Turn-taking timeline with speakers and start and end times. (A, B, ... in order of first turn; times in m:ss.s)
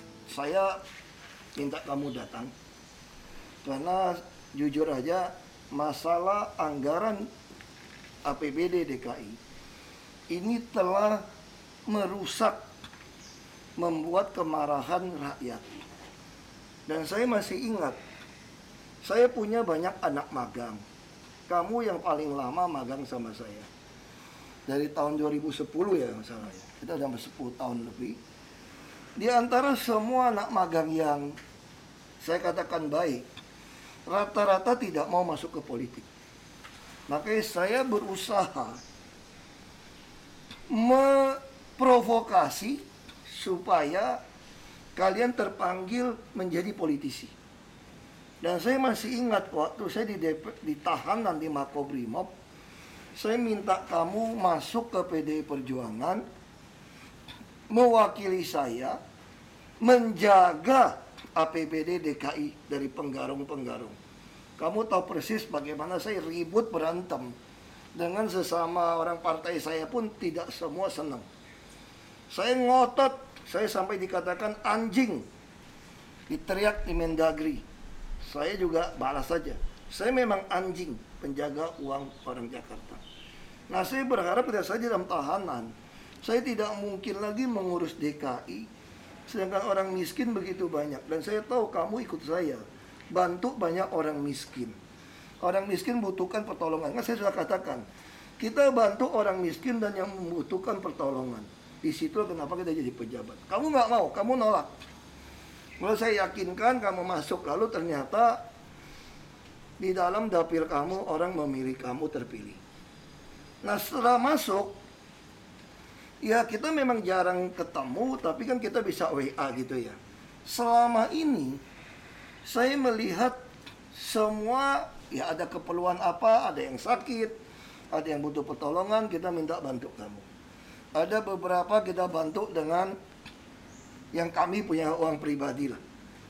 0:00.3-0:00.8 A
0:01.6-0:02.5 A
0:03.6-0:07.3 A
0:08.2-0:09.4 A
0:10.3-0:11.2 A
0:11.9-0:12.6 A
0:13.8-0:15.6 A
0:16.9-0:18.0 A
0:19.0-0:20.8 A
0:21.5-0:23.7 A
0:24.7-0:28.2 A
0:29.2-0:31.3 A
0:32.2-0:33.2 A
0:34.1-0:36.1 A
0:37.1-0:38.8 A
0:40.7-0:44.2 A
0:45.0-0:47.3 A
0:48.4-0:52.3 A
0:53.2-0:56.2 A
0:57.7-0:59.0 A
0:59.8-1:04.0 A
1:04.6-1:07.3 A
1:07.9-1:11.2 A
1:12.3-1:15.2 A
1:16.3-1:17.6 A
1:18.2-1:23.0 A
1:23.7-1:28.7 A
1:29.3-1:34.8 A
1:35.4-1:37.8 A
1:38.4-1:44.7 A
1:45.8-1:48.4 A
1:49.8-1:52.6 A
1:53.6-1:54.8 A
1:56.2-2:01.6 A
2:02.4-2:03.4 A
2:03.9-2:07.3 A
2:07.9-2:10.2 A
2:11.0-2:12.9 A
2:14.1-2:15.8 A